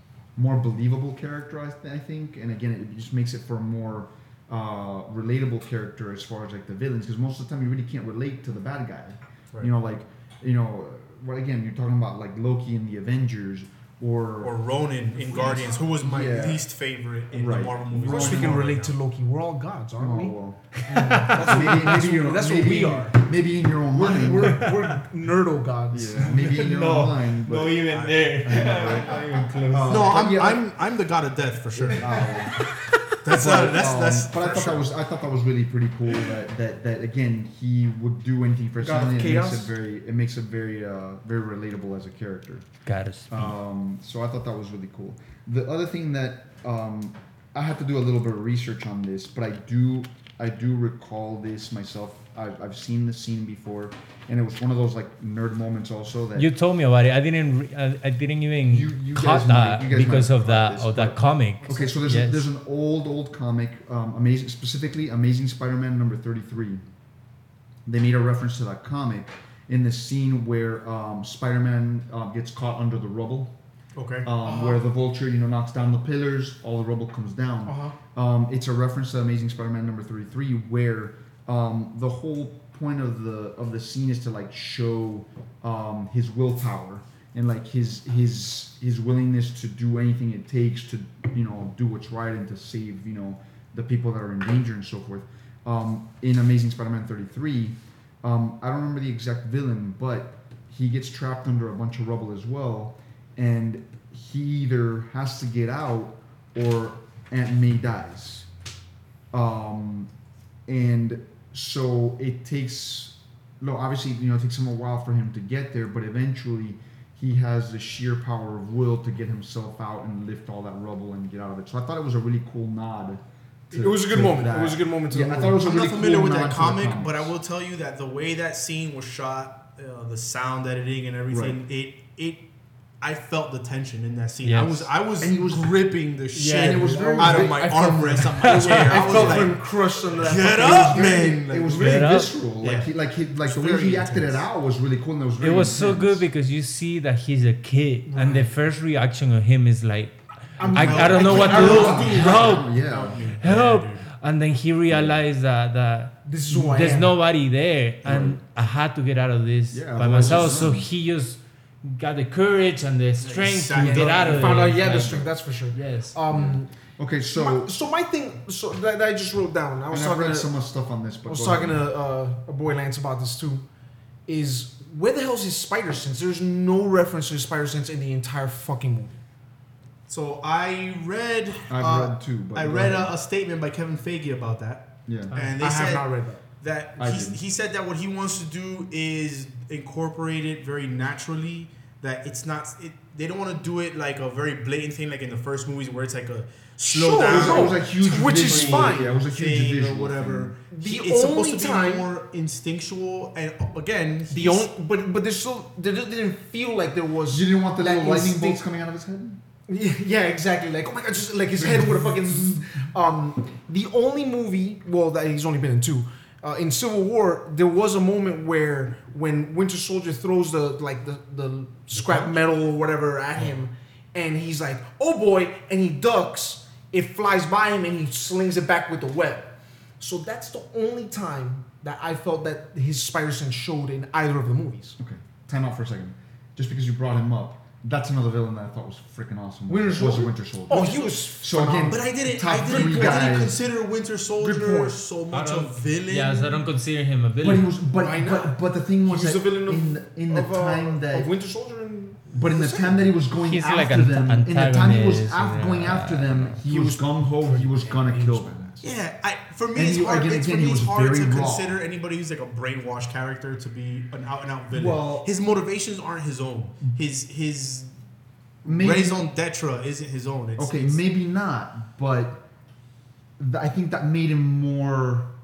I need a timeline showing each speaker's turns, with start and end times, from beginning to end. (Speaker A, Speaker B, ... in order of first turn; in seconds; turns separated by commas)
Speaker A: 0.4-14.6, Speaker B: 14.4-19.0, Speaker A: 15.3-16.7, Speaker A: 17.3-18.6, Speaker C: 17.9-20.3, Speaker A: 20.0-24.7, Speaker D: 20.7-21.8, Speaker C: 20.9-23.2, Speaker C: 23.9-26.6, Speaker A: 25.9-27.8, Speaker D: 26.2-30.2, Speaker B: 27.8-29.2, Speaker A: 28.4-30.6, Speaker B: 29.9-32.2, Speaker A: 31.7-32.7, Speaker C: 31.9-32.2, Speaker D: 32.7-33.0, Speaker B: 33.2-34.9, Speaker A: 33.2-42.7, Speaker C: 38.8-39.7, Speaker D: 42.9-43.5, Speaker A: 43.3-56.5, Speaker D: 56.3-62.5, Speaker A: 58.7-66.8, Speaker C: 61.6-62.0, Speaker A: 67.9-73.5, Speaker B: 74.0-74.3, Speaker A: 74.2-108.5, Speaker C: 74.4-74.8, Speaker C: 77.7-78.0, Speaker A: 109.3-110.1, Speaker A: 110.7-127.3, Speaker C: 123.7-125.6, Speaker B: 125.6-132.4, Speaker A: 131.3-131.6, Speaker B: 133.0-142.9, Speaker D: 134.4-134.9, Speaker A: 135.2-135.8, Speaker C: 136.3-141.4, Speaker A: 136.5-139.5, Speaker D: 138.5-139.0, Speaker A: 140.5-146.2, Speaker D: 141.8-142.3, Speaker B: 143.4-144.4, Speaker D: 145.4-152.7, Speaker C: 148.1-148.5, Speaker C: 150.6-152.4, Speaker A: 150.6-153.2, Speaker B: 150.7-154.1, Speaker D: 153.4-166.2, Speaker A: 154.9-155.2, Speaker C: 156.2-157.1, Speaker A: 158.0-158.4, Speaker A: 159.7-160.9, Speaker B: 160.2-160.7, Speaker B: 163.2-164.7, Speaker C: 163.8-166.7, Speaker A: 166.3-167.7, Speaker C: 167.3-170.5, Speaker A: 169.9-171.8, Speaker C: 171.3-173.6, Speaker C: 174.3-179.2, Speaker B: 180.1-186.1, Speaker A: 181.7-183.1, Speaker A: 185.1-185.3, Speaker D: 185.3-185.6, Speaker C: 185.6-186.4, Speaker B: 186.6-204.7, Speaker A: 187.0-187.4, Speaker C: 196.9-199.1, Speaker A: 197.2-200.5, Speaker C: 200.7-202.1, Speaker C: 204.3-208.6, Speaker A: 207.3-209.4, Speaker C: 209.7-235.0, Speaker A: 211.6-212.7, Speaker A: 221.9-222.4, Speaker A: 235.0-243.6, Speaker C: 239.7-242.0, Speaker B: 241.8-246.6, Speaker C: 242.7-243.4, Speaker C: 244.4-244.9, Speaker D: 245.3-247.7, Speaker A: 247.4-251.3, Speaker C: 247.9-253.1, Speaker A: 252.3-258.7, Speaker D: 253.4-256.6, Speaker C: 256.6-258.8, Speaker B: 258.8-267.9, Speaker A: 259.7-261.8, Speaker A: 264.7-265.3, Speaker A: 268.6-269.3, Speaker B: 268.6-271.0, Speaker A: 270.6-272.4, Speaker A: 273.4-275.3